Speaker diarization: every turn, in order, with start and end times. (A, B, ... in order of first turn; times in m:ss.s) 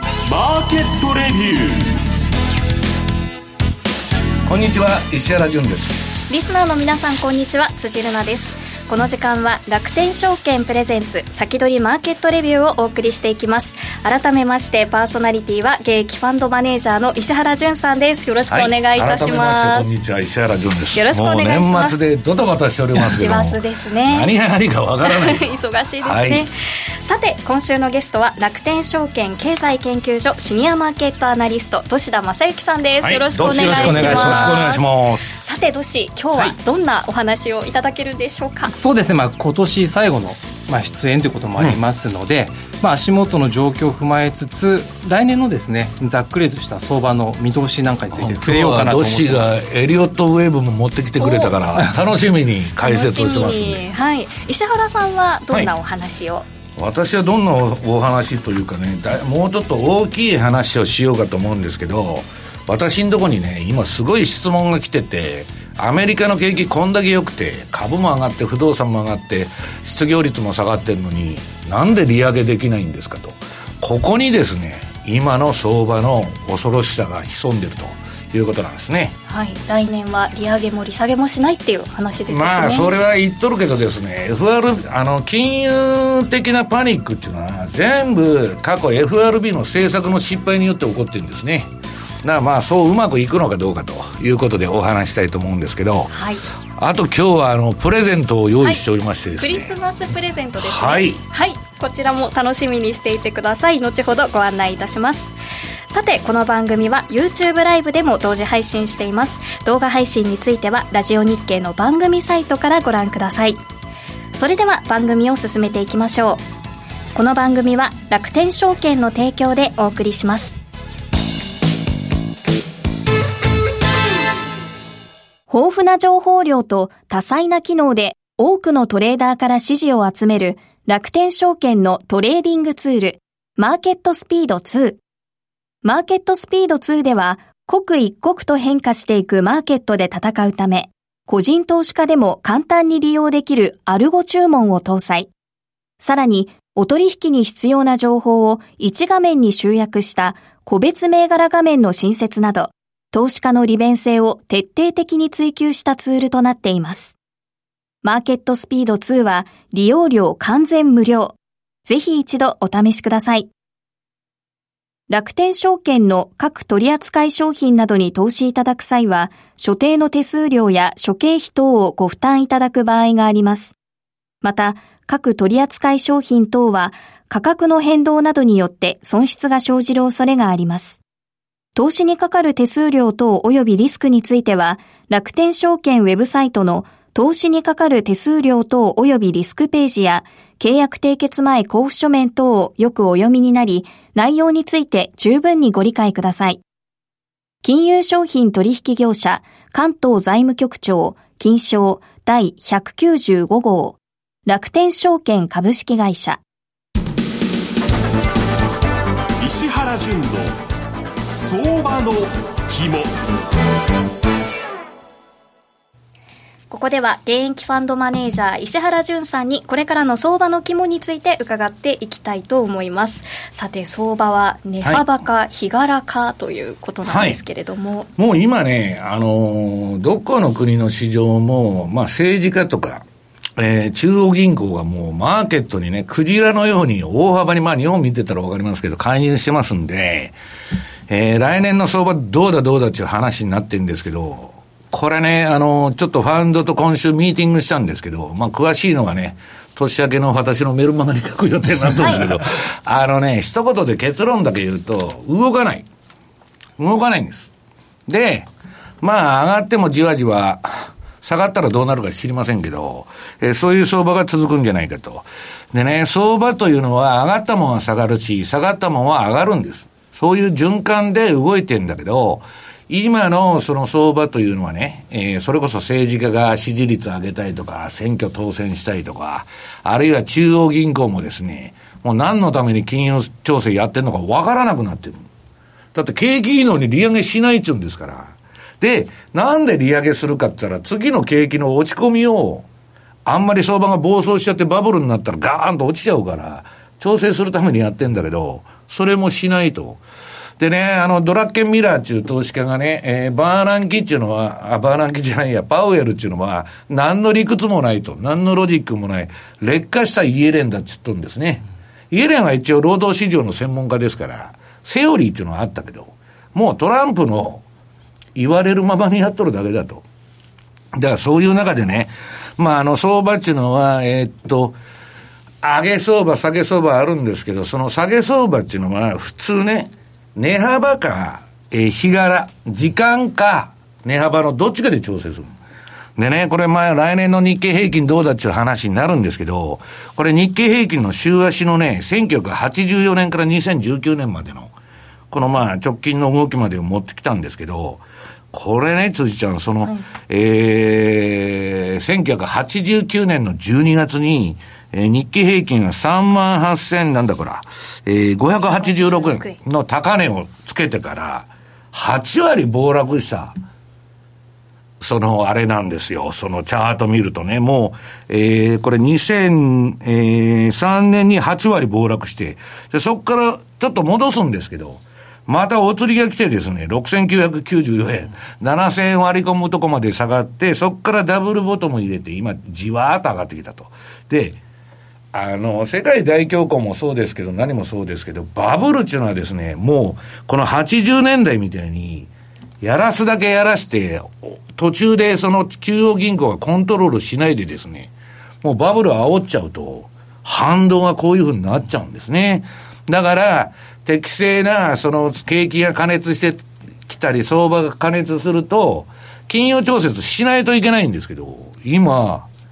0:00.2-0:02.0 A
0:04.4-0:06.0 B
0:06.3-0:19.9 C
0:18.5-0:25.5 B
0:20.9-0:22.0 C
0:22.9-0:24.3 C
0:25.0-0:38.7 C
0:26.0-0:26.4 B
0:33.0-0:35.2 B
0:33.4-0:34.7 D
0:38.7-0:49.6 D
0:48.1-0:53.9 B
0:51.2-0:51.6 C
0:52.8-0:56.5 C
0:56.8-1:19.2 B
1:19.3-1:22.9 C
1:22.3-1:31.7 B
1:32.2-1:36.2 B
1:36.1-1:36.4 C
1:36.8-1:39.8 B
1:39.4-1:45.3 C
1:40.6-1:41.2 B
1:45.9-1:53.6 C
1:54.3-1:56.4 C
1:57.1-2:00.6 C
2:05.5-2:15.0 C
2:15.8-2:25.3 C
2:26.0-2:37.1 C
2:38.0-2:43.5 C
2:45.1-2:53.8 C
2:54.4-3:01.0 C
3:01.8-3:16.6 C
3:17.6-3:26.4 C
3:29.4-3:30.6 A
3:31.2-3:33.1 A
3:36.7-3:48.1 C
3:47.0-3:47.4 B
3:48.2-3:53.0 B
3:53.6-4:00.3 B
4:01.1-4:15.8 B
4:16.8-4:17.5 B
4:18.1-4:18.5 B
4:19.0-4:45.2 B
4:45.9-4:52.6 B
4:53.2-5:00.0 B
5:00.6-5:17.6 B
5:18.3-5:20.0 B
5:20.9-5:24.8 B
5:25.6-5:35.5 B
5:36.2-5:44.7 B
5:45.3-6:03.5 B
5:58.8-5:59.6 C
6:05.0-6:24.6 B
6:25.3-6:32.3 B
6:32.8-6:38.1 B
6:38.6-6:52.5 B